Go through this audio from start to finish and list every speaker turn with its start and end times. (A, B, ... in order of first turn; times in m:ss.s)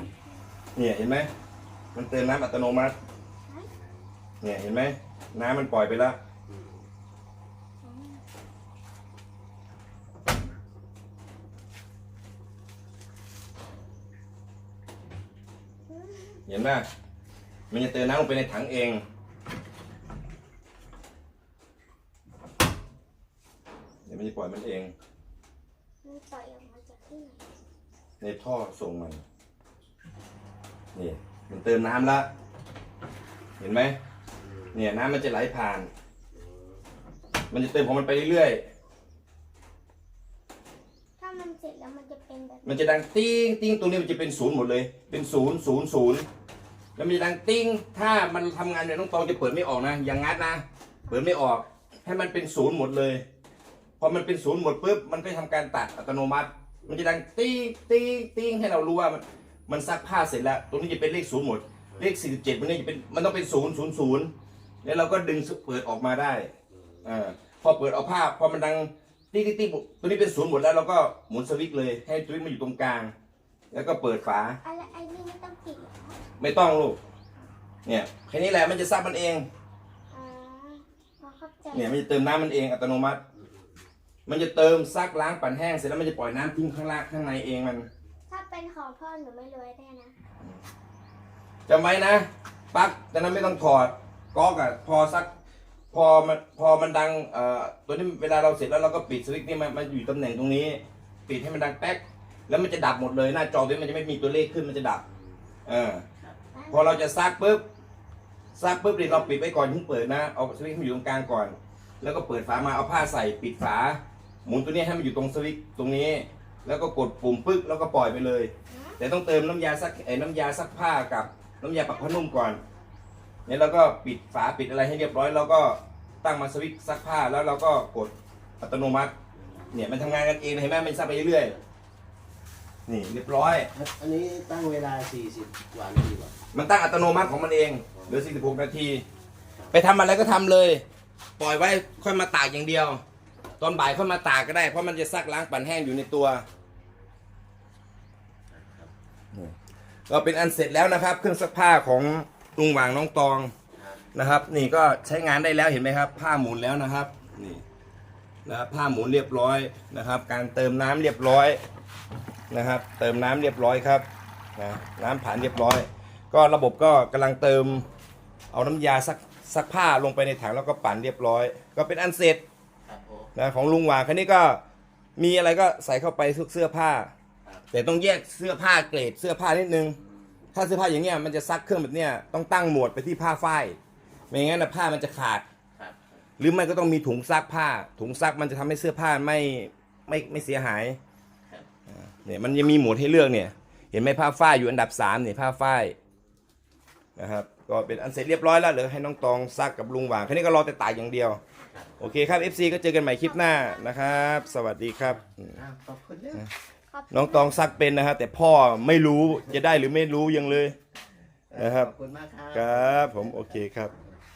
0:00.8-0:01.3 A
0:02.0-0:02.9 A
0:04.4-0:06.2 A
0:06.5-0:06.8 B
0:07.8-0:08.2 C
0:15.9-0:16.4 C
0:16.5-0:16.9 A
0:17.7-0:19.0 A
0:24.1-0:24.9 A
0:26.0-0:27.4 C
0:28.2-0:29.2 A
0:31.0-0:32.3 A
0:33.6-0:34.0 A
0:34.4-0:35.0 B
0:34.7-0:35.9 A
0:36.3-0:36.8 B
0:37.5-0:38.6 A
0:41.2-0:43.0 C
0:42.6-0:46.2 A
0:47.0-0:53.2 A
0:51.1-0:51.5 C
0:54.0-1:04.3 A
1:04.8-1:06.5 A
1:06.9-1:07.3 B
1:07.0-1:13.1 A
1:13.7-1:14.6 A
1:14.6-1:16.2 C
1:16.4-1:17.0 A
1:17.9-1:19.5 A
1:20.1-1:22.1 C
1:21.7-1:23.2 A
1:24.3-1:27.9 A
1:28.3-1:30.1 C
1:31.7-1:35.3 A
1:35.9-1:45.0 A
1:45.7-1:46.0 A
1:46.5-1:47.0 C
1:46.7-1:47.6 A
1:48.6-2:02.6 A
1:58.7-1:59.0 C
2:01.8-2:02.6 C
2:03.5-2:09.1 A
2:09.4-2:09.9 B
2:09.7-2:11.6 A
2:12.9-2:13.7 A
2:13.7-2:16.4 B
2:16.5-2:19.0 A
2:17.9-2:18.3 B
2:19.7-2:20.8 A
2:21.4-2:23.0 A
2:23.6-2:26.4 A
2:28.5-2:28.9 B
2:30.1-2:33.5 A
2:33.8-2:34.1 B
2:34.1-2:37.6 A
2:38.5-2:41.6 A
2:42.5-2:44.0 A
2:44.6-2:47.9 A
2:48.5-2:52.4 A
2:52.8-2:53.3 B
2:53.4-2:54.6 A
2:55.2-2:57.1 A
2:57.7-3:00.0 A
3:00.1-3:00.4 B
3:00.5-3:03.8 A
3:04.3-3:05.4 A
3:05.8-3:06.2 B
3:06.4-3:11.0 A
3:11.9-3:16.0 A
3:17.2-3:21.4 A
3:21.7-3:22.2 B
3:22.0-3:25.6 A
3:22.9-3:24.6 C
3:25.0-3:26.4 B
3:26.9-3:27.6 C
3:27.1-3:30.8 A
3:31.5-3:34.1 B
3:31.5-3:31.9 A
3:32.5-3:33.9 A